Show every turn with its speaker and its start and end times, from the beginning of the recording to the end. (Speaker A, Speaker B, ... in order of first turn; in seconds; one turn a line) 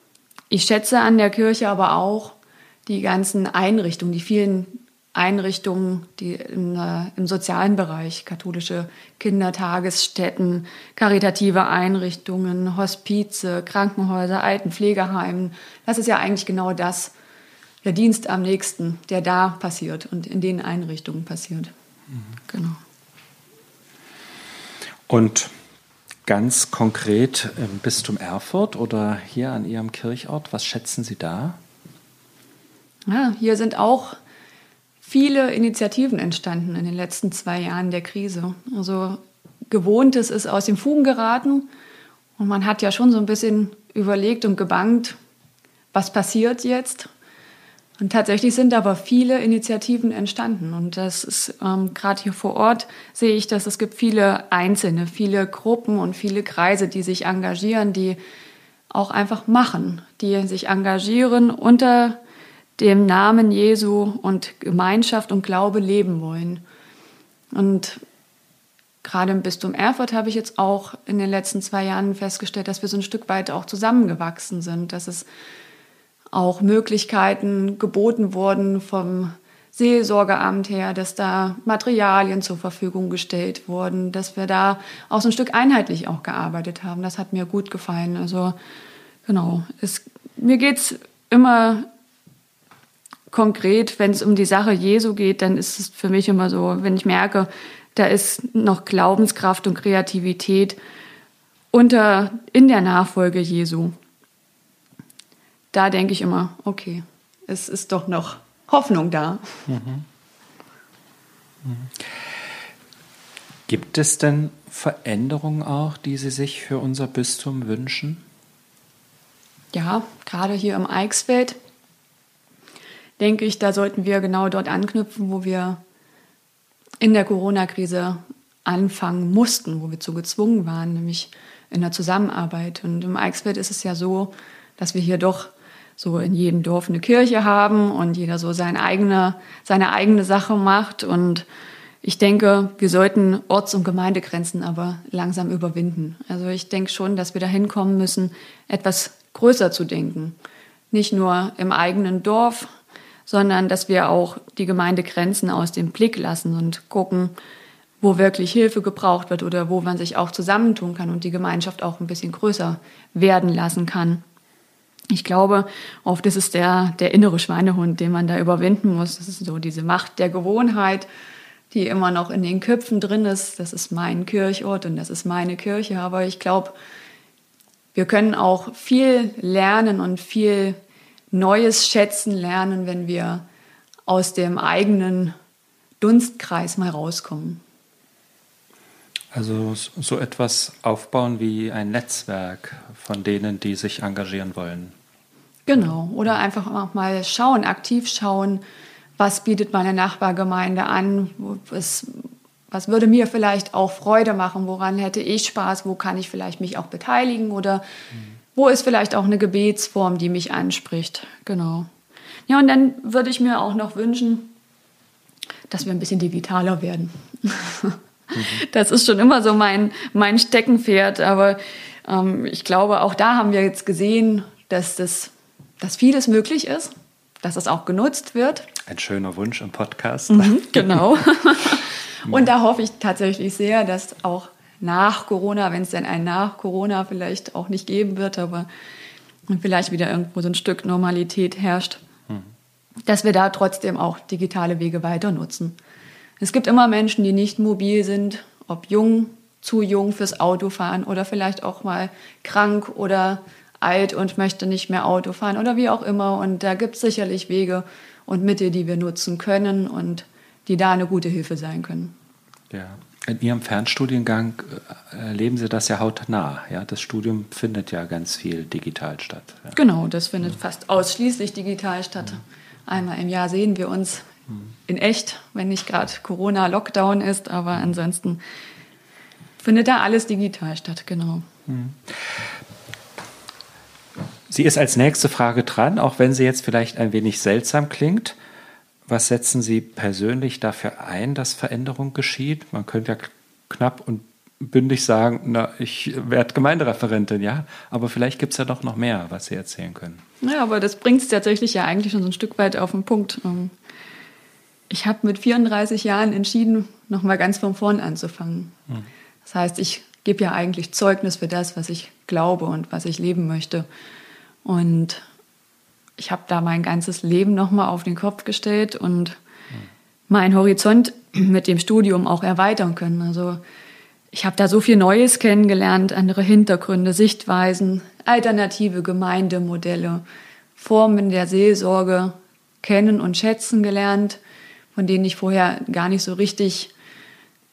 Speaker A: 0.5-17.1
Speaker A: 17.8-21.7
Speaker A: 22.5-22.8
Speaker B: 25.1-25.5
Speaker B: 26.2-31.6
Speaker A: 33.1-34.2
Speaker A: 35.0-41.7
Speaker A: 42.4-45.2
Speaker A: 45.9-47.1
Speaker A: 48.0-58.2
Speaker A: 58.9-62.2
Speaker A: 62.8-66.6
Speaker A: 67.5-68.0
Speaker A: 69.0-75.3
Speaker A: 76.3-88.5
Speaker A: 89.2-91.9
Speaker A: 93.3-100.8
Speaker A: 101.7-103.9
Speaker A: 105.7-109.7
Speaker B: 109.7-110.0
Speaker B: 113.7-118.2
Speaker A: 119.7-121.6
Speaker A: 123.2-125.8
Speaker A: 127.0-141.4
Speaker A: 142.0-150.4
Speaker A: 150.9-152.7
Speaker A: 153.3-157.3
Speaker A: 158.0-164.2
Speaker A: 165.1-171.1
Speaker A: 171.7-176.8
Speaker A: 177.9-180.8
Speaker A: 181.3-183.4
Speaker A: 184.1-185.3
Speaker A: 186.0-187.6
Speaker B: 189.3-194.9
Speaker A: 195.7-198.6
Speaker A: 199.2-207.8
Speaker A: 208.5-211.9
Speaker A: 212.5-214.5
Speaker A: 215.7-226.9
Speaker B: 218.3-218.6
Speaker A: 227.4-228.7
Speaker B: 228.9-231.2
Speaker A: 230.3-238.7
Speaker A: 239.5-242.0
Speaker A: 243.1-245.8
Speaker A: 246.4-262.1
Speaker B: 262.7-269.7
Speaker A: 269.7-274.3
Speaker A: 274.9-278.4
Speaker A: 279.6-281.4
Speaker B: 281.7-282.1
Speaker B: 284.5-288.4
Speaker B: 289.1-300.2
Speaker A: 300.4-303.7
Speaker A: 304.9-308.7
Speaker A: 309.4-313.9
Speaker A: 314.6-315.2
Speaker A: 316.2-319.4
Speaker A: 320.3-323.6
Speaker A: 324.3-330.2
Speaker A: 330.8-334.4
Speaker A: 334.9-336.9